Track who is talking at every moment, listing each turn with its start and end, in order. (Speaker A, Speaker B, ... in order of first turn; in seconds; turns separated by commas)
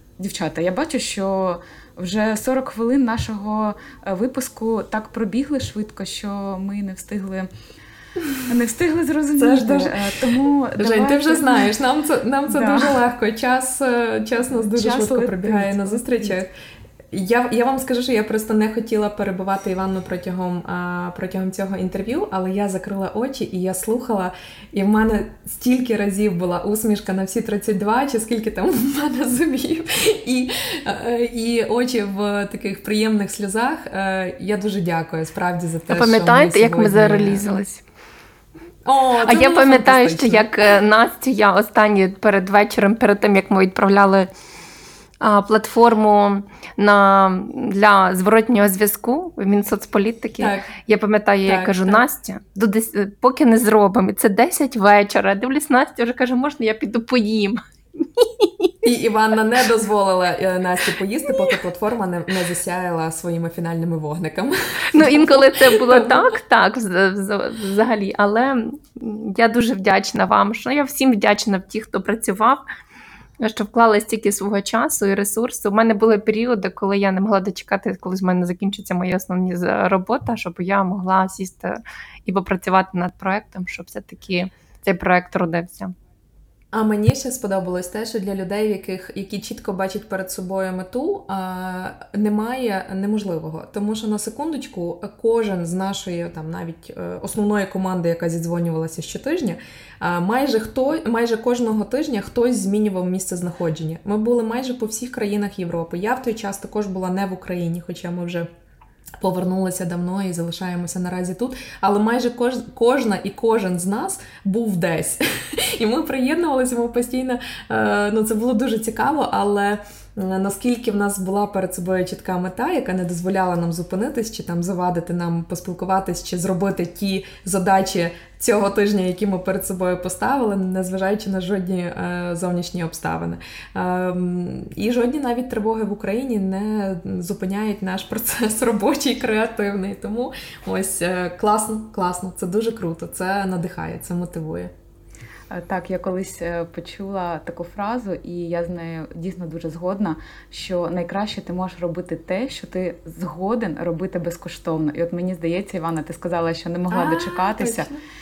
Speaker A: 0.2-7.5, Speaker A: 8.5-11.7, Speaker B: 9.4-10.1, Speaker B: 10.8-16.5, Speaker A: 12.5-13.0, Speaker A: 14.5-16.4, Speaker B: 17.1-37.5, Speaker C: 35.9-37.9, Speaker B: 38.9-40.5, Speaker C: 39.2-44.3, Speaker C: 45.2-58.7, Speaker B: 50.4-50.7, Speaker B: 51.5-52.0, Speaker B: 58.8-66.3, Speaker C: 64.9-72.6, Speaker C: 73.4-85.9, Speaker B: 86.7-108.5, Speaker B: 109.2-144.7, Speaker A: 145.5-157.9, Speaker B: 156.9-158.0